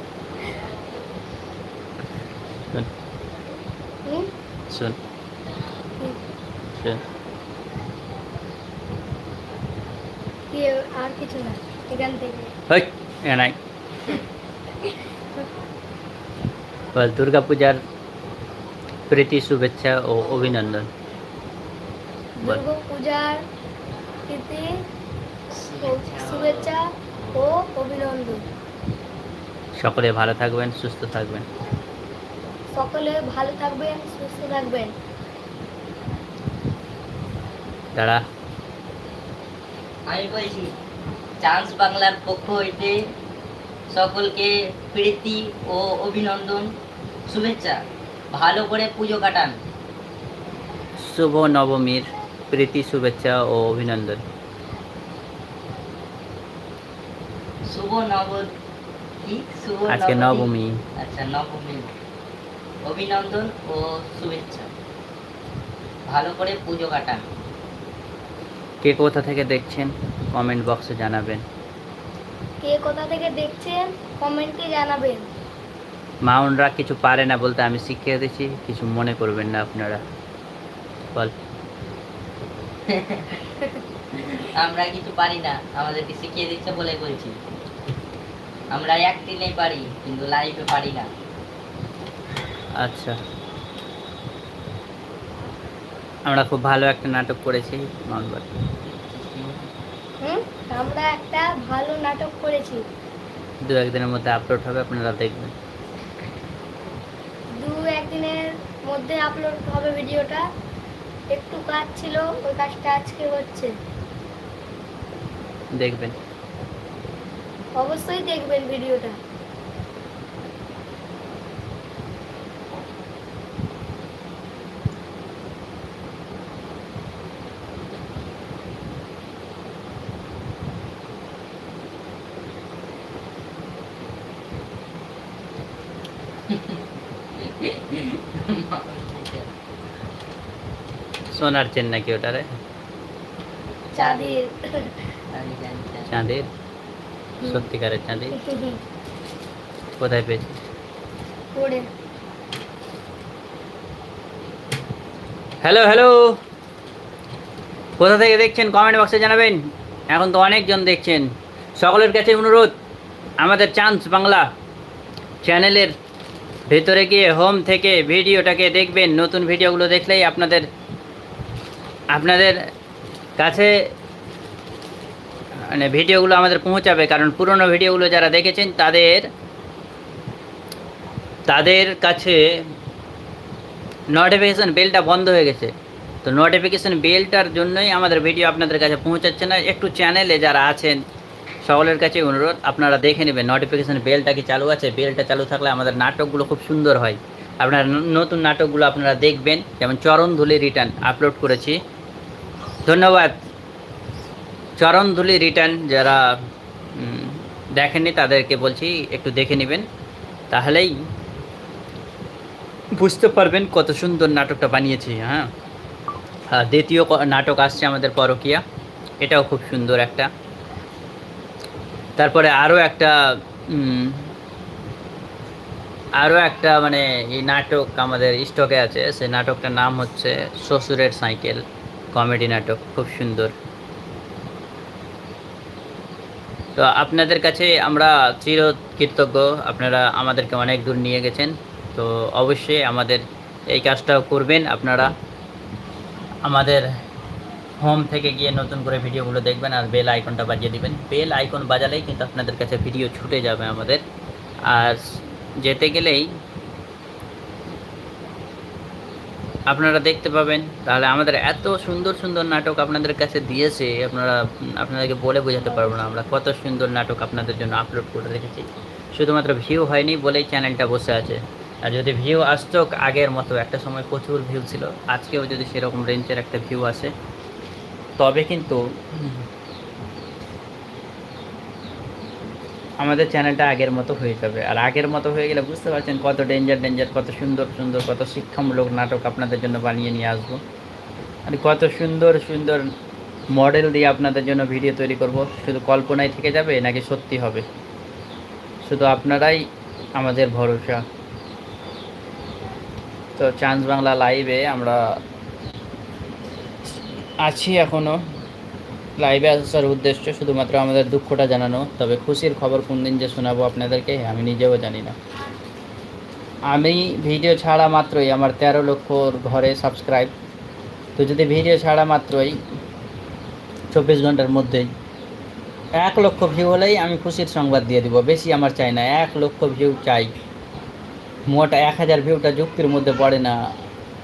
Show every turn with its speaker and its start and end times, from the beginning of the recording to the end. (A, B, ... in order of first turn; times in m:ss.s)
0:04.7-0:05.0 A
0:06.7-0:07.0 A
0:10.5-0:12.5 B
0:12.7-0:13.6 A
0:16.9-0:17.8 A
0:19.1-0:20.9 A
0:22.4-0:23.4 B
0:24.3-0:24.7 B
0:25.5-0:26.8 C
0:25.7-0:28.4 B
0:29.8-0:31.5 A
0:32.8-0:34.9 B
0:38.0-0:38.2 A
0:40.1-0:40.7 C
0:41.4-0:43.0 C
0:43.9-0:46.7 C
0:47.3-0:47.8 C
0:48.3-0:49.5 C
0:51.0-0:54.2 A
0:57.7-0:58.5 C
0:59.2-1:01.9 C
0:59.9-1:00.8 A
1:02.8-1:04.7 C
1:06.1-1:07.2 C
1:08.8-1:11.4 A
1:12.6-1:15.2 B
1:16.2-1:20.0 A
1:22.9-1:23.4 C
1:24.1-1:27.4 C
1:28.7-1:31.1 C
1:32.8-1:33.2 A
1:36.3-1:38.5 A
1:39.1-1:39.7 C
1:40.2-1:42.8 B
1:43.6-1:45.6 A
1:47.6-1:50.4 B
1:51.3-1:53.7 B
1:55.8-1:56.2 A
1:57.8-1:59.2 B
2:16.5-2:16.8 C
2:17.4-2:19.5 C
2:21.3-2:22.5 A
2:24.0-2:24.9 B
2:24.0-2:24.4 C
2:25.3-2:26.1 C
2:26.1-2:26.5 A
2:27.5-2:28.4 A
2:28.4-2:28.8 B
2:30.0-2:30.6 A
2:31.6-2:31.9 B
2:35.6-2:36.4 A
2:38.0-2:42.8 A
2:43.4-2:44.5 A
2:45.4-2:45.9 A
2:46.7-2:50.7 A
2:52.1-2:52.6 A
2:53.4-2:53.9 A
2:55.7-2:59.3 A
3:01.5-3:02.7 A
3:04.1-3:05.7 A
3:06.2-3:11.0 A
3:11.6-3:21.8 A
3:22.9-3:23.4 A
3:24.8-3:26.4 A
3:27.0-3:29.9 A
3:30.5-3:31.0 A
3:33.0-3:35.5 A
3:36.5-3:38.6 A
3:39.2-3:40.3 A
3:42.2-3:44.3 A
3:46.2-3:53.5 A
3:56.8-4:05.1 A
4:06.4-4:06.9 A
4:07.8-4:14.0 A
4:14.7-4:16.3 A
4:19.7-4:37.1 A
4:38.2-4:39.4 A
4:43.0-4:50.6 A
4:51.5-4:52.9 A
4:53.5-4:57.7 A
4:58.8-4:59.6 A
5:00.2-5:01.0 A
5:03.4-5:05.0 A
5:07.4-5:08.2 A
5:09.2-5:15.2 A
5:16.7-5:20.3 A
5:21.2-5:22.6 A
5:23.9-5:24.9 A
5:26.0-5:30.3 A
5:31.5-5:33.6 A